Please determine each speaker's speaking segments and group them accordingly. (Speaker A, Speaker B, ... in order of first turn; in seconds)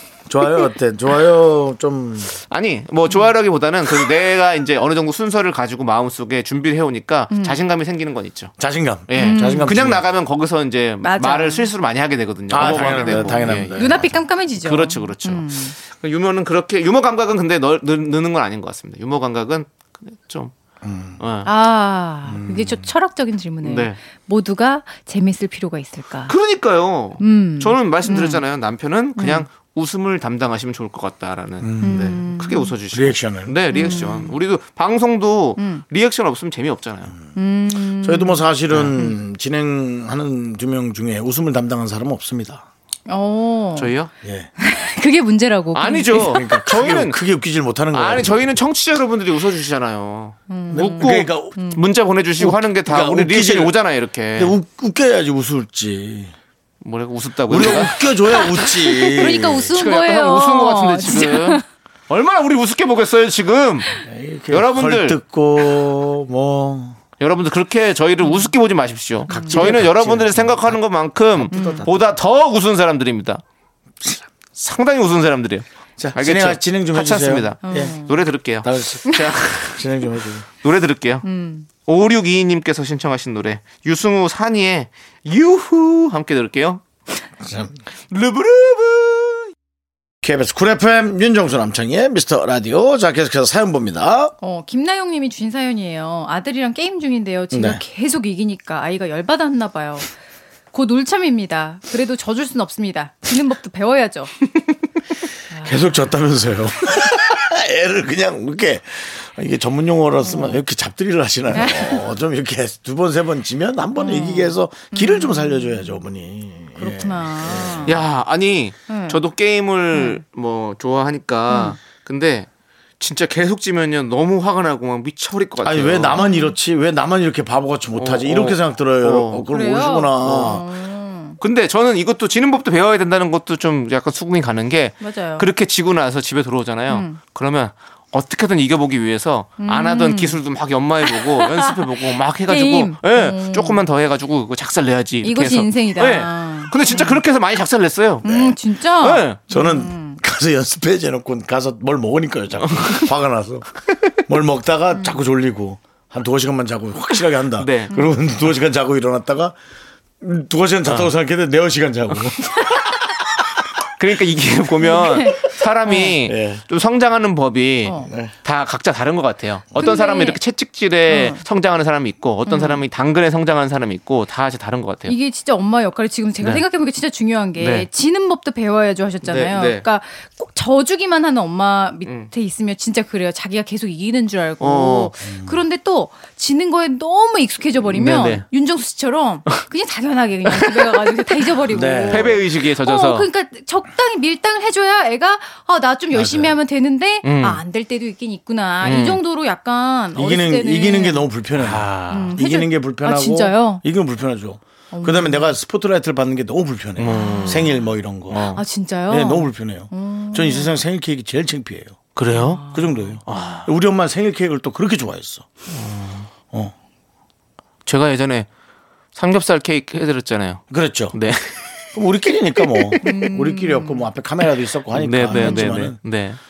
Speaker A: 0.3-2.4, 8.6-10.0, 12.5-14.1, 20.8-21.2, 22.3-22.9, 31.6-32.2, 32.9-33.5, 38.0-42.6, 44.2-44.5, 46.2-48.5, 50.7-51.5, 52.4-53.7, 54.4-56.3, 57.5-59.7, 64.0-67.0, 69.3-70.8, 71.3-72.2, 76.0-78.0, 78.6-80.5, 87.4-87.8, 90.2-94.3, 97.5-97.8, 105.6-118.0, 125.6-130.6, 149.5-153.7, 154.3-159.6, 160.2-162.8, 166.2-166.6, 168.1-168.3, 185.2-185.6, 191.7-192.4, 196.1-196.6, 200.1-208.5, 209.1-212.0, 212.7-215.5, 220.7-221.2, 221.9-226.0
Speaker B: 2.5-8.5, 9.1-20.5, 21.2-21.5, 23.6-24.0, 26.3-37.1, 43.8-44.1, 45.7-47.2, 47.9-54.5, 56.8-58.0, 59.7-63.9, 64.5-65.2, 67.2-73.4, 74.5-79.9, 80.6-81.2, 81.8-86.8, 88.1-89.5, 117.8-122.5, 123.0-126.2, 128.0-129.4, 130.2-130.6, 131.4-149.4, 152.6-153.1, 157.6-157.9, 160.8-161.1, 164.0-175.1, 177.6-177.9, 179.2-179.8, 182.0-182.3, 184.6-185.1, 187.9-188.4, 190.5-191.1, 192.1-193.3, 197.2-197.6, 198.8-199.2, 201.6-202.4, 207.0-207.7, 208.3-208.6, 212.2-212.6, 213.3-213.7, 215.7-216.3, 217.8-218.5, 219.1-221.6, 222.7-223.0, 224.9-226.4
Speaker C: 7.3-7.6, 9.2-9.7, 11.0-11.7, 12.6-15.8, 21.4-26.3, 27.2-28.4, 29.2-29.4, 31.8-32.7, 33.7-34.3, 35.6-35.8, 37.3-38.4, 43.1-43.9, 44.6-46.6, 50.5-51.8, 58.3-61.6, 68.2-68.5, 69.3-69.7, 71.5-71.8, 77.6-78.2, 81.2-81.7, 94.4-100.1, 100.7-104.3, 105.5-105.8, 110.2-110.6, 111.5-112.0, 114.0-115.9, 116.8-118.0, 118.9-119.2, 119.9-120.2, 121.5-121.8, 126.2-126.5, 129.5-131.4, 135.0-135.5, 136.9-137.2, 139.6-140.4, 141.1-143.8, 145.2-147.2, 148.2-150.2, 164.8-166.1, 167.8-168.1, 169.8-170.4, 171.1-171.4, 172.4-172.8, 175.1-201.3, 202.1-203.8, 204.9-205.5, 207.1-207.8, 208.5-210.7, 212.3-213.0, 223.0-224.0, 225.3-225.7